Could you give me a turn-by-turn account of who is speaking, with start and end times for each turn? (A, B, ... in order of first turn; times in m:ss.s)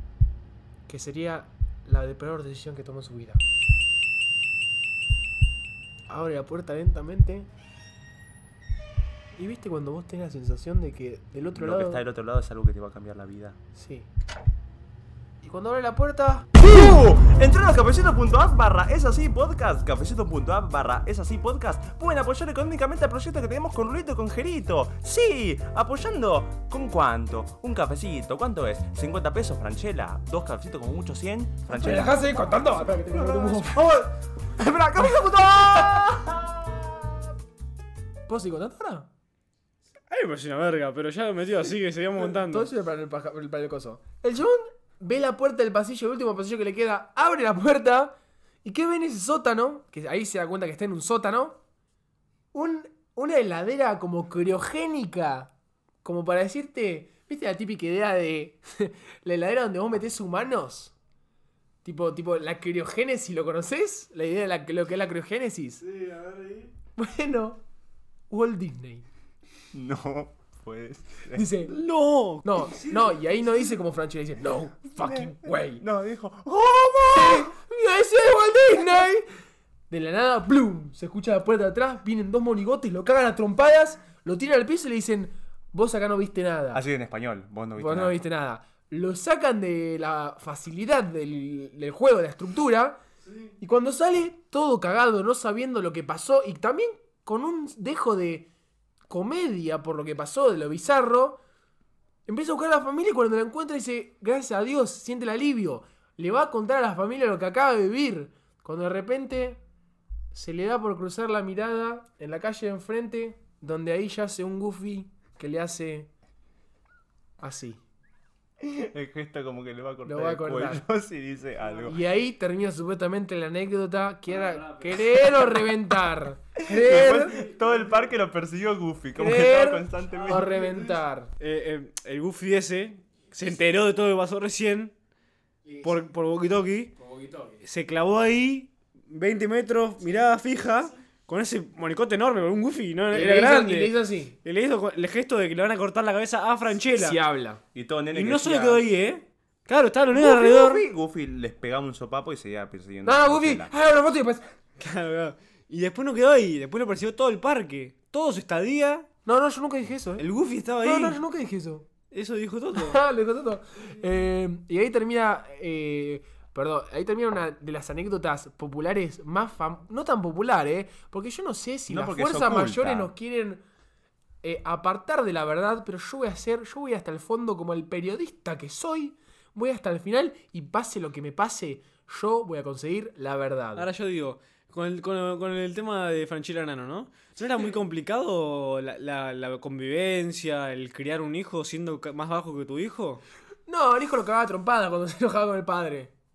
0:00.9-0:03.4 A
0:06.1-0:07.5 A
0:09.4-0:12.0 A
0:11.5-0:13.6 B
0:13.7-0:14.1 A
0:15.4-0:16.5 A
0:16.6-0:34.0 B
0:31.7-0:36.3 A
0:35.0-0:36.8 B
0:38.3-0:39.1 A
0:40.1-0:42.7 C
0:42.3-0:51.6 A
0:52.5-0:55.5 A
0:56.0-1:00.9 A
1:01.8-1:05.8 A
1:05.9-1:06.7 C
1:07.0-1:07.6 A
1:08.3-1:09.0 A
1:09.7-1:11.4 B
1:11.3-1:11.7 A
1:11.7-1:13.2 C
1:12.4-1:15.8 A
1:15.0-1:17.5 B
1:17.1-1:19.3 A
1:19.9-1:26.8 A
1:26.7-1:28.2 B
1:27.8-1:33.0 A
1:33.6-1:38.5 A
1:39.1-1:41.4 A
1:42.3-1:49.6 A
1:50.3-1:56.1 A
1:57.4-1:57.8 A
1:58.6-2:02.0 B
2:00.0-2:00.8 A
2:01.8-2:07.4 A
2:04.5-2:04.7 C
2:06.6-2:10.6 B
2:09.2-2:11.3 A
2:11.4-2:14.9 C
2:15.6-2:15.9 A
2:15.8-2:16.9 C
2:17.0-2:17.6 A
2:17.6-2:27.2 C
2:23.1-2:24.4 A
2:26.9-2:27.6 A
2:27.7-2:28.8 B
2:28.1-2:30.8 C
2:30.1-2:33.7 B
2:33.0-2:34.4 A
2:34.8-2:39.1 C
2:39.2-2:40.2 A
2:40.2-2:41.2 C
2:40.8-2:41.9 A
2:42.1-2:43.0 C
2:42.8-2:53.6 A
2:51.9-2:53.1 B
2:54.4-3:03.9 A
3:03.8-3:13.2 C
3:13.7-3:16.1 A